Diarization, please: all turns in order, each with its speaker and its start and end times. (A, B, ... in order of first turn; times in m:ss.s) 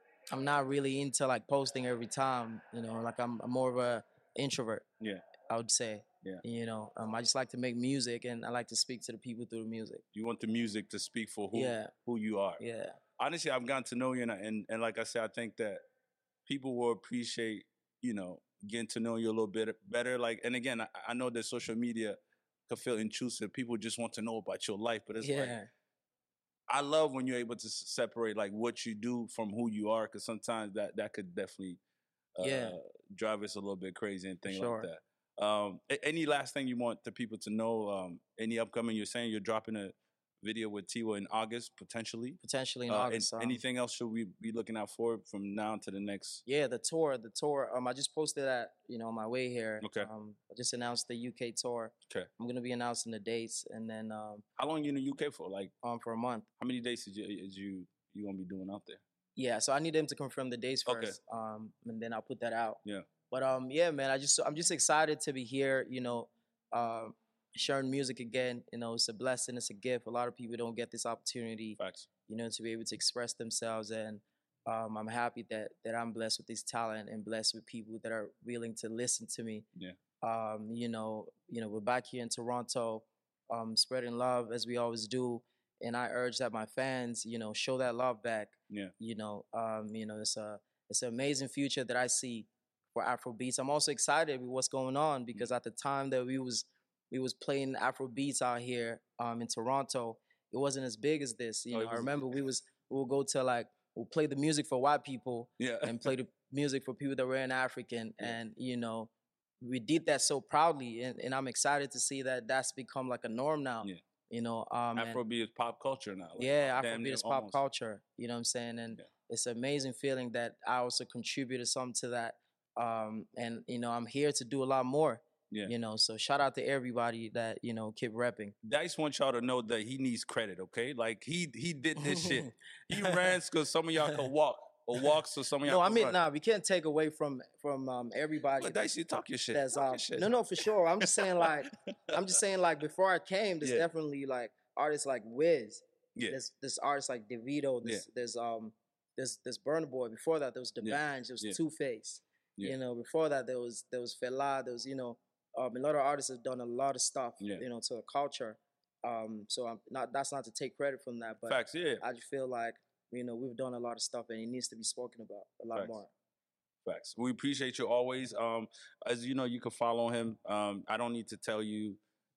0:00.3-0:04.8 A
0:05.0-0:05.2 B
0:05.5-0:10.0 A
0:10.1-0:12.6 B
0:11.5-0:11.9 A
0:12.6-0:13.0 A
0:13.2-0:15.8 B
0:16.4-0:25.6 B
0:25.2-0:25.7 A
0:26.7-0:31.8 B
0:32.4-0:46.4 B
0:32.4-0:32.8 A
0:34.4-0:34.9 A
0:42.4-0:43.6 A
0:46.4-0:54.4 A
0:49.8-0:50.1 B
0:54.6-0:55.7 B
0:55.8-0:56.5 A
0:56.6-0:59.0 B
0:59.4-1:19.6 A
1:00.8-1:01.2 B
1:11.8-1:12.1 B
1:20.2-1:49.1 A
1:41.7-1:42.4 B
1:45.6-1:46.1 B
1:49.6-1:55.2 A
1:55.0-1:57.6 B
1:56.4-2:08.5 A
2:08.6-2:16.2 B
2:12.0-2:13.3 A
2:15.6-2:18.9 A
2:18.6-2:22.4 B
2:19.5-2:46.1 A
2:30.8-2:31.6 B
2:41.5-2:42.0 B
2:45.7-2:46.0 B
2:46.8-2:52.0 B